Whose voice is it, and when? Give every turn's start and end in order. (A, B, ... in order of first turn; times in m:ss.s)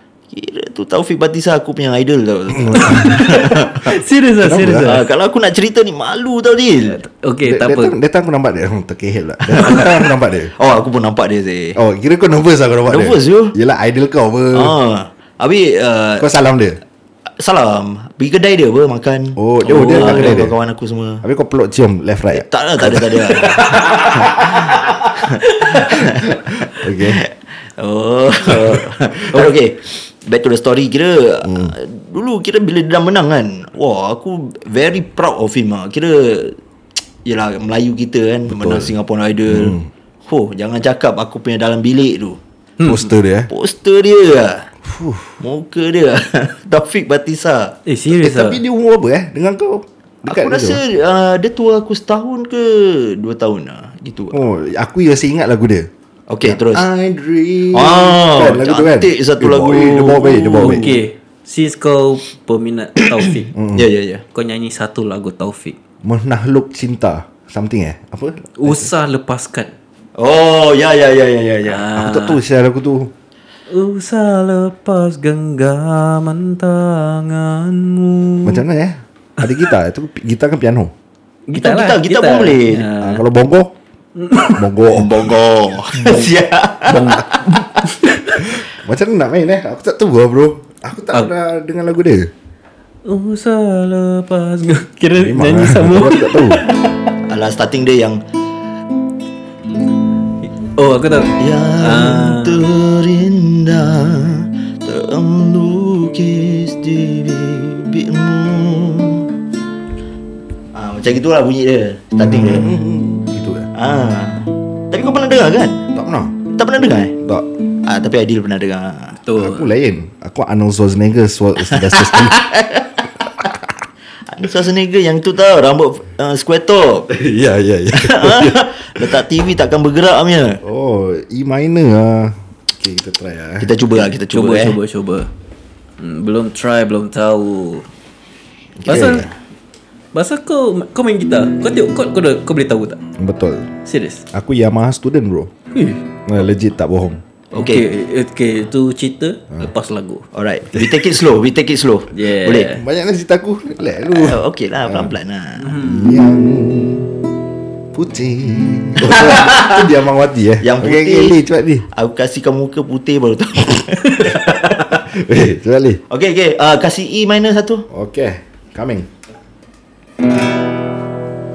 0:00.3-0:03.9 A
0:02.6-0:03.1 B
0:02.7-0:05.0 C
0:04.4-0:04.9 B
0:04.8-0:07.0 A
0:06.9-0:08.0 C
0:07.5-0:10.5 B
0:09.6-0:10.0 A
0:10.6-0:11.8 A
0:11.8-0:14.8 B
0:12.9-0:13.6 A
0:14.5-0:16.3 A
0:16.2-0:16.8 B
0:17.4-0:21.2 A
0:19.4-0:20.6 B
0:19.6-0:20.4 C
0:21.2-0:23.2 B
0:22.3-0:36.6 A
0:23.5-0:26.0 C
0:26.7-0:27.2 B
0:28.5-0:29.4 B
0:31.4-0:31.7 B
0:37.2-0:42.4 A
0:38.5-0:38.9 B
0:39.5-0:39.9 B
0:42.8-0:43.1 C
0:42.8-0:43.5 B
0:43.5-0:44.7 A
0:44.8-0:45.4 B
0:45.4-0:47.8 A
0:47.9-0:48.6 C
0:48.1-0:50.8 B
0:50.3-0:54.4 A
0:54.3-0:55.9 B
0:56.3-0:56.8 A
0:56.4-1:00.9 B
0:57.7-1:00.9 A
1:00.6-1:03.5 C
1:03.5-1:03.8 B
1:03.7-1:04.2 A
1:04.3-1:05.8 C
1:06.0-1:08.9 B
1:08.6-1:09.7 C
1:10.2-1:11.9 A
1:11.6-1:12.4 C
1:12.0-1:13.1 B
1:13.7-1:18.6 C
1:18.4-1:20.9 B
1:21.5-1:23.2 C
1:21.6-1:22.9 A
1:23.0-1:23.7 B
1:24.2-1:24.6 C
1:24.6-1:25.3 B
1:24.9-1:27.7 A
1:26.9-1:28.4 C
1:28.5-1:32.3 B
1:33.0-1:37.1 C
1:35.2-1:36.6 B
1:37.3-1:38.2 A
1:40.8-1:42.6 C
1:41.4-1:49.2 A
1:50.7-1:52.8 A
1:52.2-1:53.7 B
1:53.8-1:55.8 A
1:55.9-1:56.4 B
1:56.5-1:57.2 A
1:57.8-1:59.2 A
1:59.2-1:59.7 C
1:59.4-2:02.4 B
2:01.7-2:03.5 A
2:04.3-2:07.1 A
2:07.1-2:09.2 B
2:07.9-2:10.6 A
2:10.6-2:13.7 B
2:13.6-2:14.8 A
2:14.3-2:15.3 C
2:16.0-2:17.9 C
2:18.8-2:19.3 B
2:18.9-2:19.3 C
2:18.9-2:19.3 A
2:20.1-2:23.0 C
2:23.2-2:23.7 B
2:23.8-2:24.3 C
2:24.3-2:25.5 B
2:25.7-2:26.0 C
2:26.3-2:27.2 B
2:27.5-2:27.9 A
2:27.6-2:30.2 C
2:30.3-2:32.8 A
2:32.1-2:32.8 C
2:32.7-2:35.1 B
2:33.9-2:35.8 A
2:35.6-2:36.1 C
2:35.8-2:37.1 B
2:37.9-2:41.9 B
2:39.0-2:39.9 A
2:40.6-2:41.4 A
2:41.9-2:45.0 A
2:45.0-2:46.0 B
2:46.1-2:47.9 A
2:47.9-2:49.1 B